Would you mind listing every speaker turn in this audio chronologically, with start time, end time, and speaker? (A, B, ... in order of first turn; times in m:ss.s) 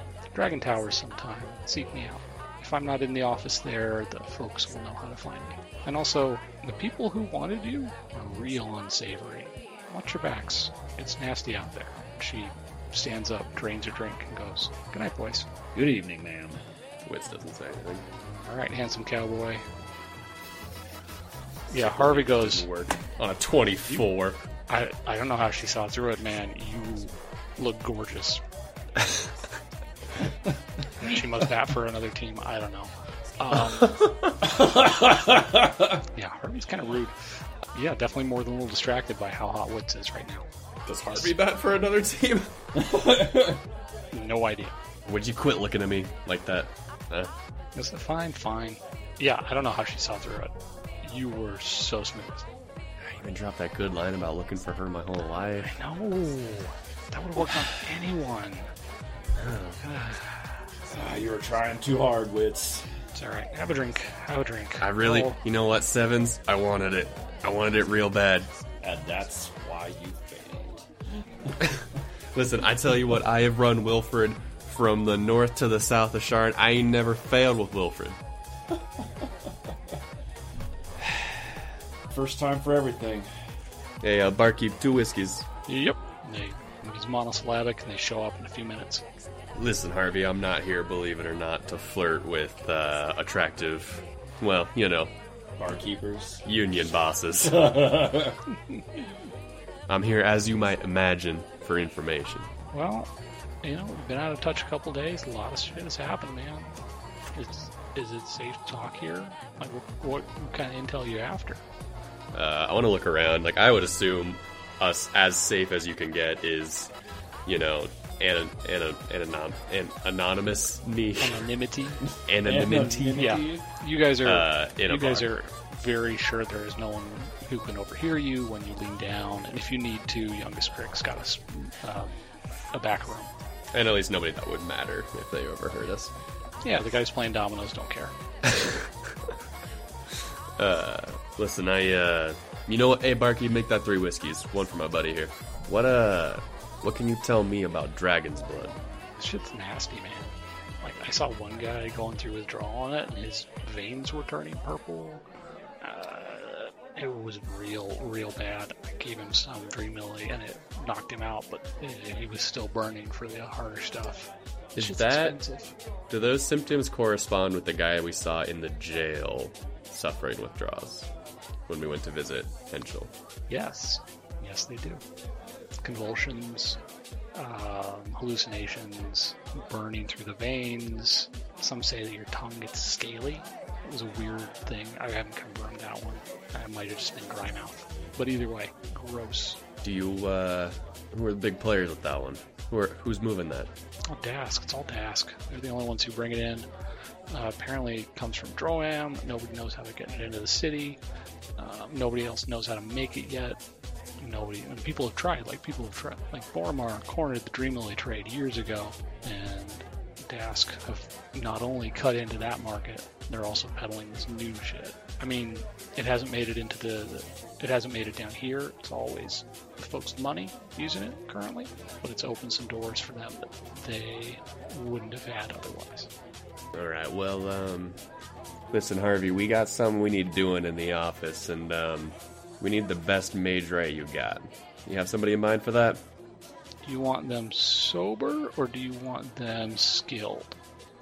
0:00.3-0:15.5 A
0:15.8-0:16.6 B
0:17.0-0:18.1 C
0:18.5-0:19.6 A
0:21.7-0:22.7 A
0:21.7-0:24.4 C
0:24.7-0:28.4 A
0:31.0-0:34.0 A
0:33.8-0:34.3 C
0:34.4-0:36.0 B
0:36.2-0:37.2 A
0:37.7-0:40.5 A
0:40.9-0:42.5 C
0:42.8-0:43.6 B
0:44.1-0:44.7 A
0:45.1-0:47.3 C
0:47.8-0:50.5 A
0:51.0-0:52.5 A
0:53.0-0:55.7 C
0:55.7-0:58.7 A
0:59.4-0:59.8 C
0:59.8-1:00.2 A
1:00.9-1:02.9 B
1:03.2-1:05.4 A
1:04.8-1:08.5 C
1:08.8-1:10.9 B
1:11.6-1:18.2 C
1:22.1-1:23.3 B
1:24.0-1:25.5 C
1:25.7-1:29.0 A
1:29.6-1:35.1 C
1:35.6-1:36.4 B
1:36.4-1:37.8 C
1:37.4-1:38.4 B
1:39.9-1:42.5 C
1:42.7-1:43.1 A
1:43.6-1:46.7 A
1:47.3-1:51.6 A
1:52.3-1:56.9 C
1:57.5-2:01.5 C
2:01.2-2:02.0 A
2:02.0-2:03.7 B
2:02.3-2:03.3 C
2:03.2-2:12.1 A
2:04.2-2:05.3 C
2:12.7-2:13.3 A
2:13.7-2:16.1 C
2:16.6-2:18.1 A
2:18.4-2:19.2 C
2:20.1-2:28.8 C
2:29.2-2:30.3 A
2:30.8-2:35.2 A
2:35.8-2:45.8 A
2:44.8-2:45.4 C
2:46.1-2:51.1 C
2:51.7-2:53.1 C
2:53.5-2:55.0 A
2:55.8-2:56.8 A
2:57.4-3:09.6 A
3:09.8-3:13.7 C
3:14.1-3:16.7 A
3:17.3-3:21.0 A
3:21.6-3:23.6 A
3:24.2-3:46.1 A
3:46.7-3:48.0 C
3:48.7-3:56.0 C
3:56.8-4:00.6 A